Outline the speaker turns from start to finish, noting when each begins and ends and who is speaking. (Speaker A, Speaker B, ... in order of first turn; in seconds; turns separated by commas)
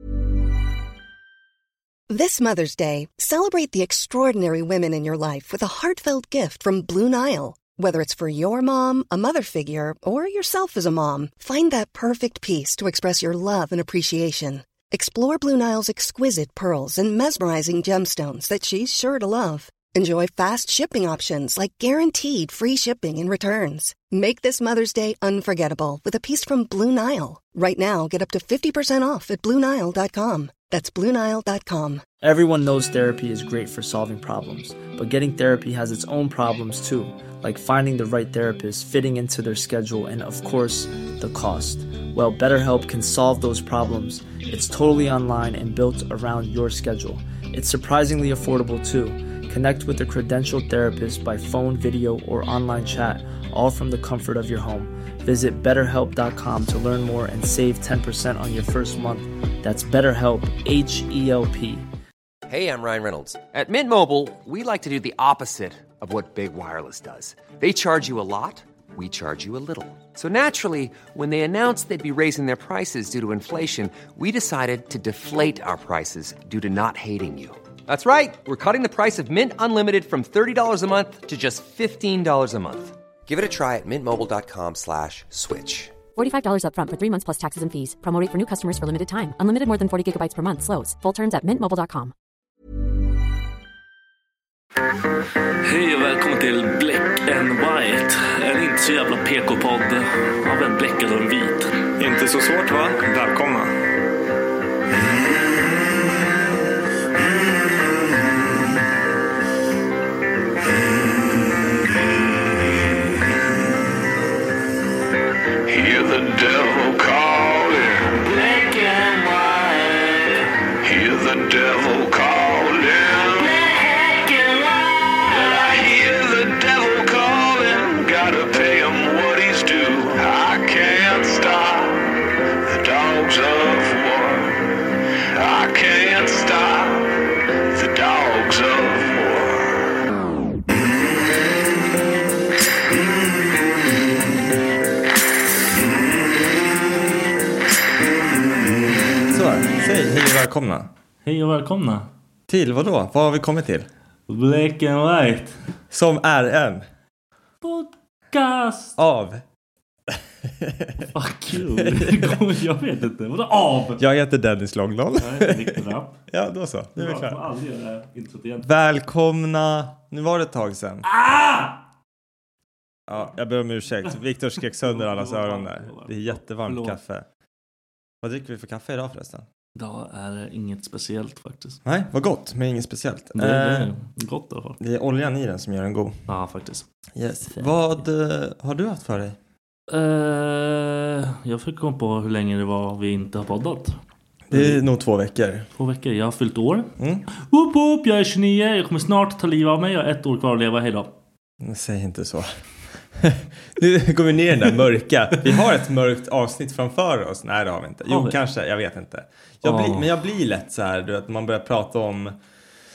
Speaker A: 2.1-32.0, Speaker B: 32.2-61.9, Speaker C: 62.5-86.0, Speaker D: 86.2-92.1, Speaker E: 95.6-101.7, Speaker F: 102.0-103.8, Speaker G: 115.7-134.6, Speaker G: 135.3-139.9, Speaker F: 149.3-150.9, Speaker E: 151.2-152.1, Speaker F: 152.5-153.9, Speaker E: 154.3-155.6, Speaker F: 155.9-156.8, Speaker E: 157.6-159.0, Speaker F: 159.0-159.4, Speaker F: 160.1-162.4, Speaker E: 161.1-164.0, Speaker F: 164.0-167.4, Speaker E: 165.2-166.2, Speaker E: 167.0-168.7, Speaker F: 168.6-171.1, Speaker E: 171.0-171.8, Speaker F: 173.1-177.3, Speaker E: 174.6-177.0, Speaker F: 178.2-179.5, Speaker E: 179.8-181.8, Speaker F: 181.8-183.9, Speaker E: 183.3-184.8, Speaker F: 184.8-186.2, Speaker E: 186.3-186.9, Speaker F: 187.2-189.4, Speaker E: 189.9-194.0, Speaker F: 194.5-195.7, Speaker E: 194.5-194.8, Speaker E: 195.8-201.1, Speaker F: 197.0-197.2, Speaker F: 201.6-202.6, Speaker F: 203.2-212.4, Speaker E: 208.1-208.4, Speaker E: 209.6-210.1